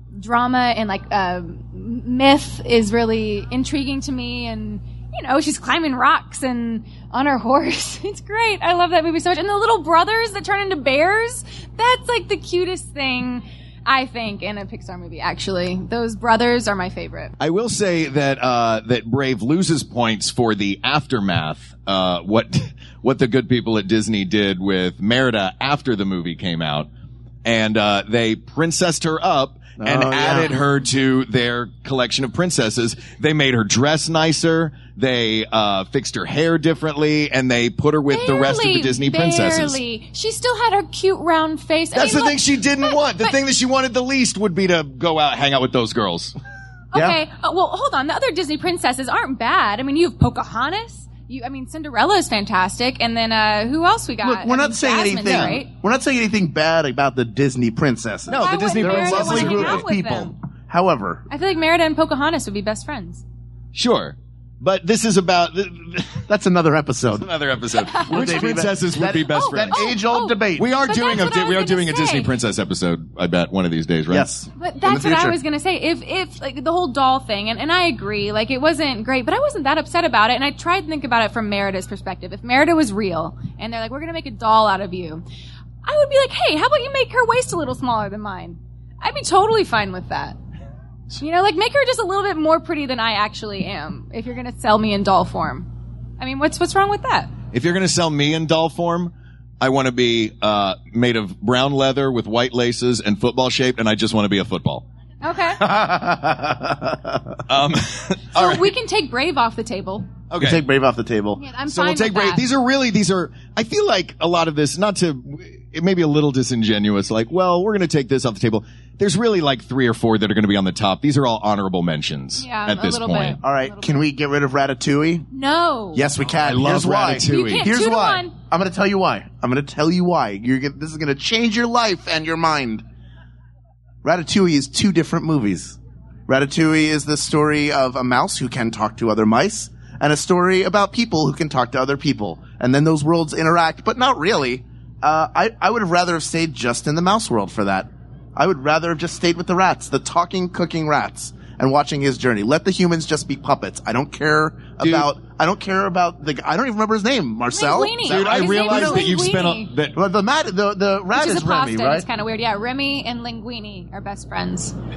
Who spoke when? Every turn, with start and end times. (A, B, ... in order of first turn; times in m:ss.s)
0:00.2-0:17.3 A
0:17.4-0:26.9 B
0:27.4-0:39.8 B
0:29.8-0:30.5 C
0:38.1-0:43.4 A
0:41.9-0:46.4 B
0:46.9-0:55.7 A
0:54.2-1:01.2 C
0:55.2-0:55.6 B
0:58.3-0:59.9 B
0:58.3-1:00.3 A
1:01.3-1:03.2 A
1:03.7-1:06.2 B
1:06.3-1:07.3 C
1:07.2-1:09.9 B
1:07.8-1:12.3 A
1:08.1-1:10.7 C
1:10.6-1:14.3 B
1:14.1-1:15.4 C
1:14.6-1:25.2 A
1:25.8-1:30.4 A
1:31.2-1:35.7 A
1:36.2-1:37.3 A
1:37.5-1:44.9 B
1:45.2-1:45.7 A
1:45.6-1:47.4 C
1:47.5-1:48.7 B
1:48.3-1:50.1 A
1:50.3-1:50.6 B
1:50.4-1:51.4 C
1:51.4-1:52.4 A
1:51.7-2:03.4 B
2:02.4-2:04.0 A
2:03.4-2:05.3 C
2:05.3-2:06.1 A
2:05.9-2:12.8 C
2:06.4-2:07.7 B
2:07.3-2:08.3 A
2:14.0-2:15.8 C
2:16.3-2:39.1 C
2:34.8-2:35.1 B
2:37.5-2:39.7 A
2:38.0-2:40.0 B
2:40.0-2:42.1 C
2:41.1-2:44.7 A